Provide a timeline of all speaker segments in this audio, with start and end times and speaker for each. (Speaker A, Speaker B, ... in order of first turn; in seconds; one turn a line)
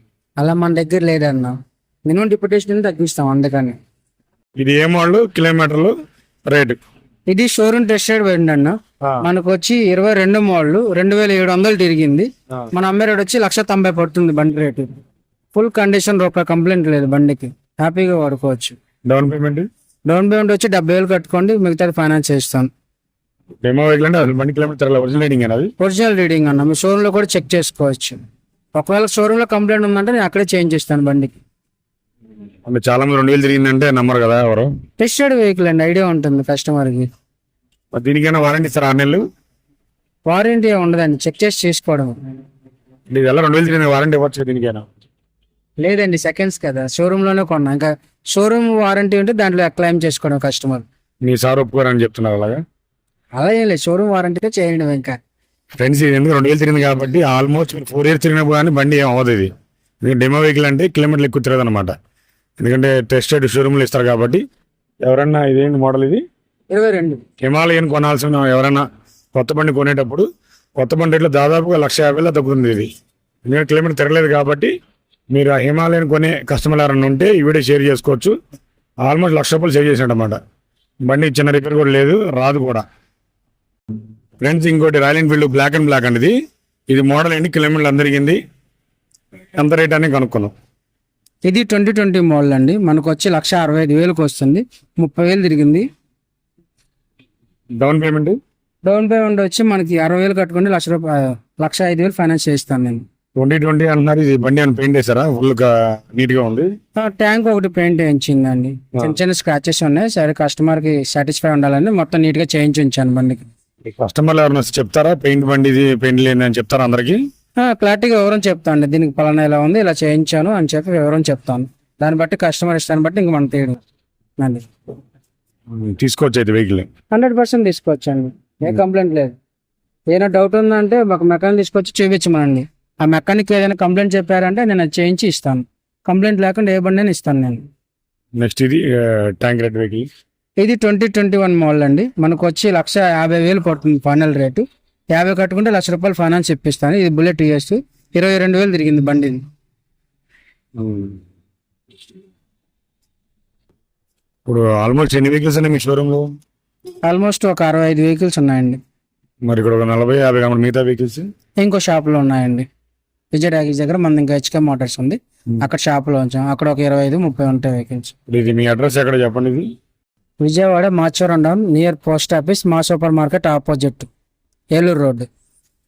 Speaker A: 0.4-3.8
Speaker B: 4.6-5.9
Speaker B: 6.5-6.8
Speaker A: 7.3-14.9
Speaker A: 15.5-18.8
Speaker B: 19.1-19.7
Speaker A: 20.1-22.7
Speaker B: 23.6-25.7
Speaker A: 25.8-28.2
Speaker A: 28.7-31.4
Speaker B: 32.6-34.7
Speaker A: 35.0-37.1
Speaker B: 37.9-39.2
Speaker A: 40.2-42.2
Speaker B: 43.1-44.9
Speaker A: 45.8-50.8
Speaker B: 51.2-52.6
Speaker A: 53.4-55.2
Speaker B: 55.8-59.5
Speaker B: 60.0-62.0
Speaker B: 62.6-64.4
Speaker B: 65.0-66.2
Speaker A: 66.7-67.2
Speaker B: 67.4-72.9
Speaker B: 73.5-74.7
Speaker B: 75.3-78.3
Speaker B: 79.0-80.4
Speaker B: 81.0-82.8
Speaker B: 84.4-86.3
Speaker B: 86.9-88.4
Speaker B: 89.5-90.5
Speaker A: 91.4-95.9
Speaker B: 97.8-98.4
Speaker A: 98.8-103.0
Speaker B: 103.3-106.7
Speaker A: 107.0-113.5
Speaker B: 113.8-117.2
Speaker A: 117.6-123.8
Speaker A: 124.4-124.6
Speaker B: 125.7-126.9
Speaker A: 127.1-129.3
Speaker A: 130.1-137.6
Speaker B: 138.4-140.1
Speaker A: 140.6-149.4
Speaker B: 150.8-151.2
Speaker B: 154.4-156.3
Speaker A: 157.1-158.8
Speaker B: 159.4-161.3
Speaker A: 161.6-162.7
Speaker A: 163.3-168.1
Speaker B: 168.3-169.7
Speaker A: 170.4-174.1
Speaker A: 174.7-175.3